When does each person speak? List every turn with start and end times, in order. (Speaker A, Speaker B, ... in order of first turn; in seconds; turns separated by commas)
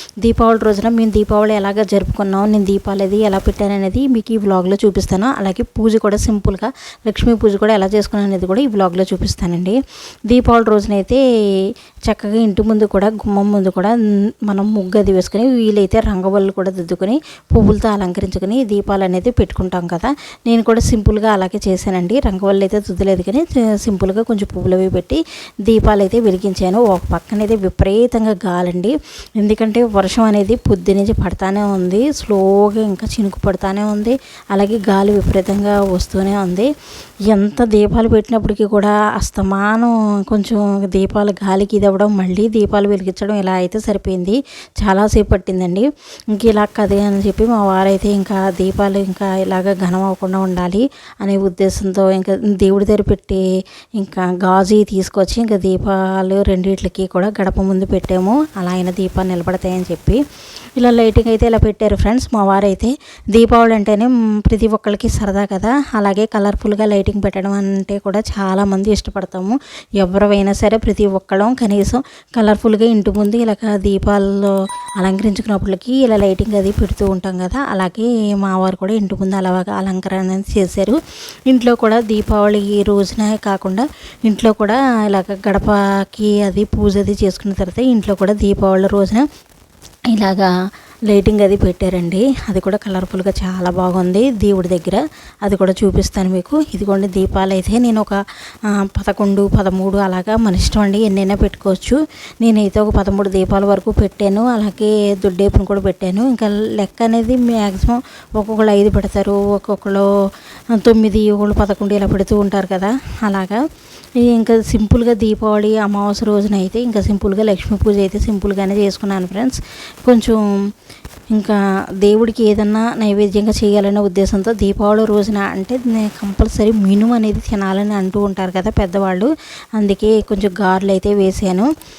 Speaker A: 0.2-9.8, Speaker A: 10.3-11.2, Speaker A: 12.1-13.9, Speaker A: 14.5-36.7, Speaker A: 37.3-53.4, Speaker A: 54.0-60.2, Speaker A: 60.8-89.2, Speaker A: 90.1-90.5, Speaker A: 91.1-98.2, Speaker A: 98.7-110.1, Speaker A: 110.8-113.6, Speaker A: 114.2-120.4, Speaker A: 121.3-131.7